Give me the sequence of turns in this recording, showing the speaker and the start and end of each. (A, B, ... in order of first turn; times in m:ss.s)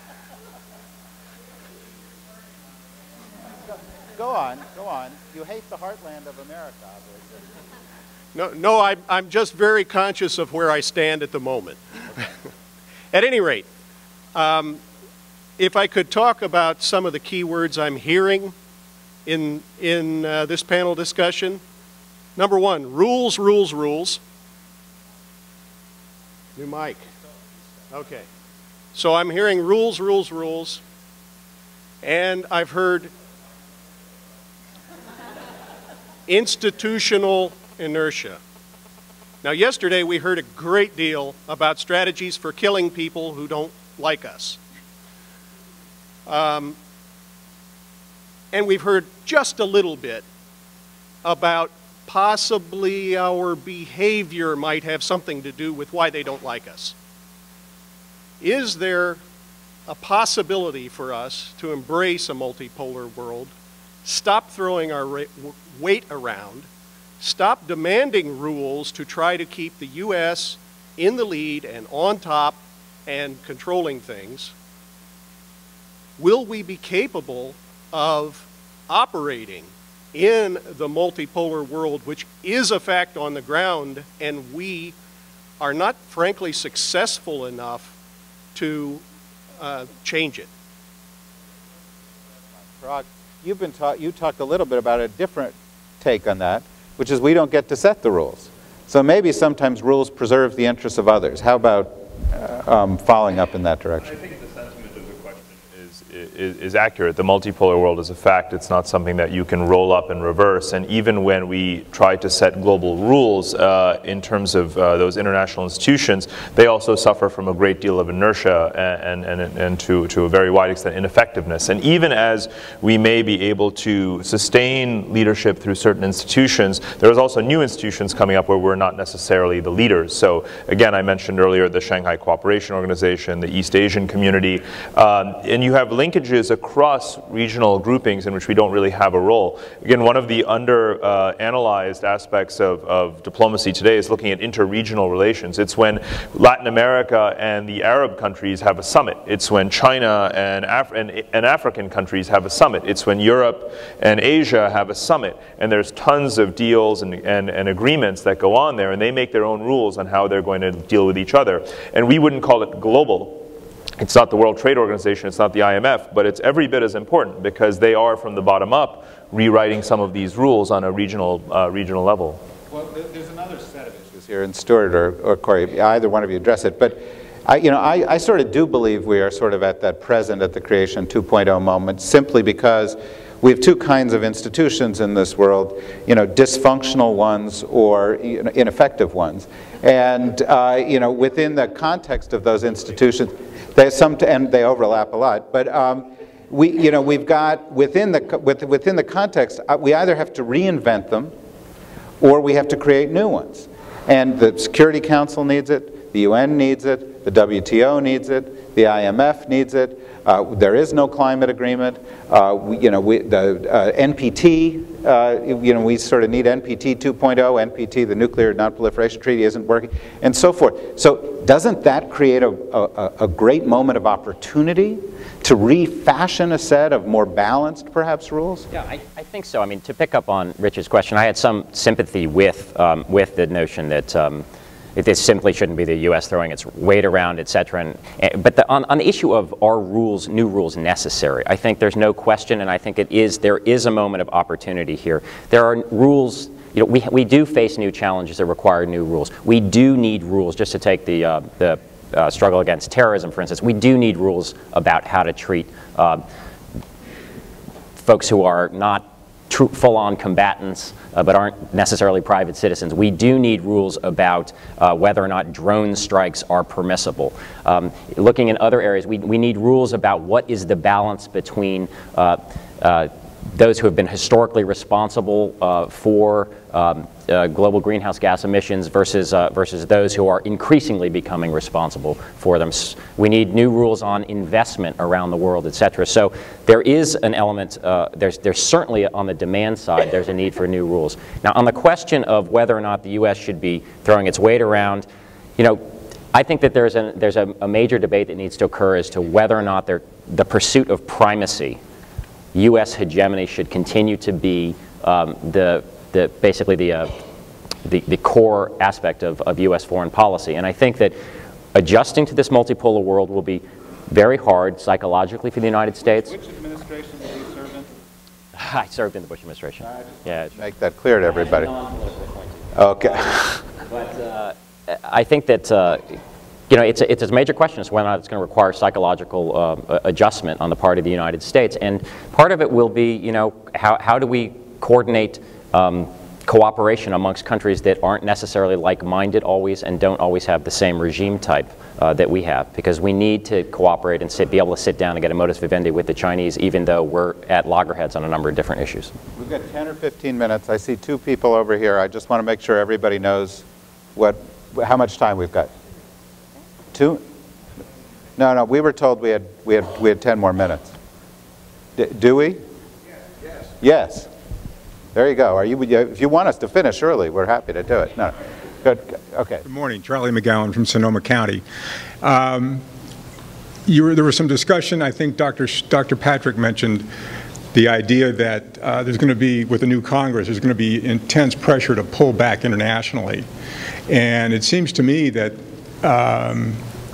0:04.1-0:07.4 A
0:08.3-0:12.3 B
0:13.1-0:13.7 B
0:14.4-0:14.8 B
0:15.6-0:18.5 B
0:19.3-0:21.6 B
0:22.4-0:24.2 B
0:26.6-0:27.1 B
0:27.9-0:28.3 B
0:28.9-0:30.8 B
0:32.0-0:33.1 B
0:36.3-0:38.4 B
0:39.4-0:44.6 B
0:46.3-0:46.8 B
0:48.5-0:50.3 B
0:51.2-0:57.0 B
0:58.4-0:59.2 B
0:59.9-1:03.5 B
1:04.0-1:06.7 B
1:07.2-1:14.5 B
1:16.2-1:25.0 B
1:25.6-1:27.9 B
1:28.6-1:29.0 B
1:29.6-1:30.5 B
1:32.8-1:44.2 A
1:44.0-2:43.5 C
2:44.0-2:52.4 C
2:52.7-3:21.3 A
3:22.2-3:48.7 A
3:48.7-3:54.4 D
3:55.0-4:16.2 D
4:18.0-4:55.1 D
4:55.6-5:01.8 D
5:02.5-5:07.2 D
5:07.8-5:11.2 D
5:11.7-5:16.3 D
5:16.0-5:17.9 A
5:18.6-5:20.6 D
5:19.8-5:21.7 A
5:21.3-5:26.2 D
5:22.8-5:23.6 A
5:26.7-5:49.1 D
5:49.4-5:53.6 A
5:54.2-5:55.7 A
5:56.9-5:57.2 A
5:58.4-6:01.0 A
6:02.0-6:02.6 A
6:03.8-6:04.3 A
6:05.1-6:09.6 A
6:09.6-6:11.6 E
6:12.2-6:12.8 E
6:13.9-6:17.1 E
6:17.7-6:23.5 E
6:24.1-6:26.8 E